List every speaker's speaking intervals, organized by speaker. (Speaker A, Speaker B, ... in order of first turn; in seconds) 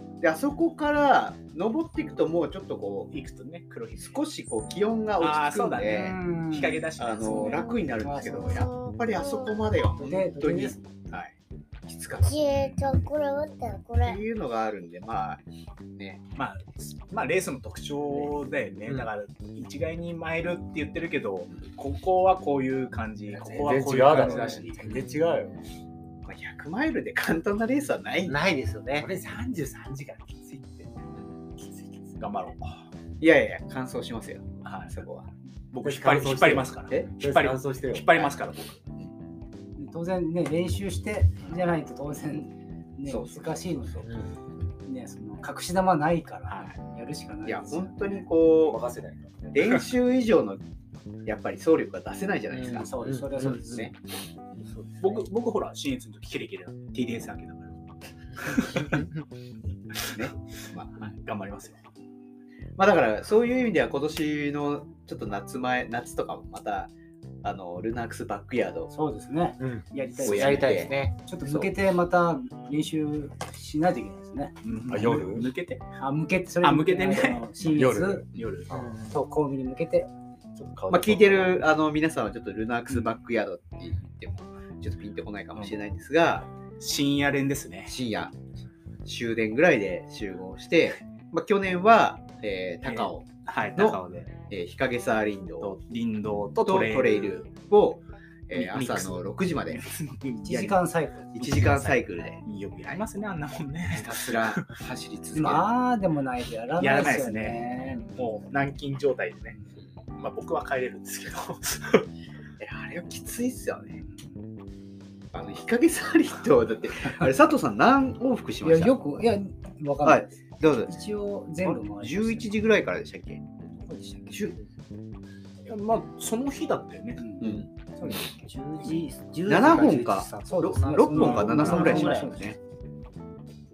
Speaker A: 0.2-3.1, 4.0-6.2, 7.0-10.8, 11.9-12.6, 13.9-16.2, 26.3-28.4, 33.2-35.3, 43.1-44.1, 47.5-48.8, 49.5-50.6, 51.2-52.9, 53.5-53.9, 60.1-61.0, 62.8-66.9, 67.4-68.9, 70.2-71.7, 80.9-86.5, 87.9-88.3, 89.0-95.7, 96.6-99.9, 100.5-100.8, 101.3-102.4, 103.9-105.7, 112.6-114.0, 115.3-119.0, 120.0-121.0, 121.6-123.4, 124.3-124.5, 127.4-128.2, 129.5-132.6
Speaker B: 3.1-4.3, 5.2-7.8, 12.5-12.9, 16.4-24.8, 32.2-32.8, 34.6-34.9, 35.7-38.8, 46.5-46.8, 55.0-57.8, 58.4-59.1, 61.0-61.8, 70.2-70.5, 74.6-75.8, 76.6-77.5, 78.3-78.7, 86.8-87.9, 92.8-94.3, 95.6-97.5, 98.5-100.8, 101.4-104.6, 106.8-109.6, 110.2-112.1, 125.7-127.2, 131.6-132.1
Speaker C: 5.8-8.7, 10.0-10.8, 39.8-44.0, 44.9-48.0, 52.7-53.9, 68.9-74.6, 76.0-78.2, 79.1-80.1, 100.4-101.3, 105.3-108.2, 118.6-120.3, 120.9-122.5, 123.9-124.4, 127.2-128.5, 130.5-132.6
Speaker D: 7.5-9.7, 12.2-14.2
Speaker E: 23.3-25.6, 28.9-30.9, 31.6-32.2, 35.8-38.3, 48.6-49.7, 74.9-75.5, 77.7-79.1, 80.6-81.7
Speaker F: 28.3-29.1, 52.5-53.6, 69.6-71.1, 78.7-79.1, 128.5-132.4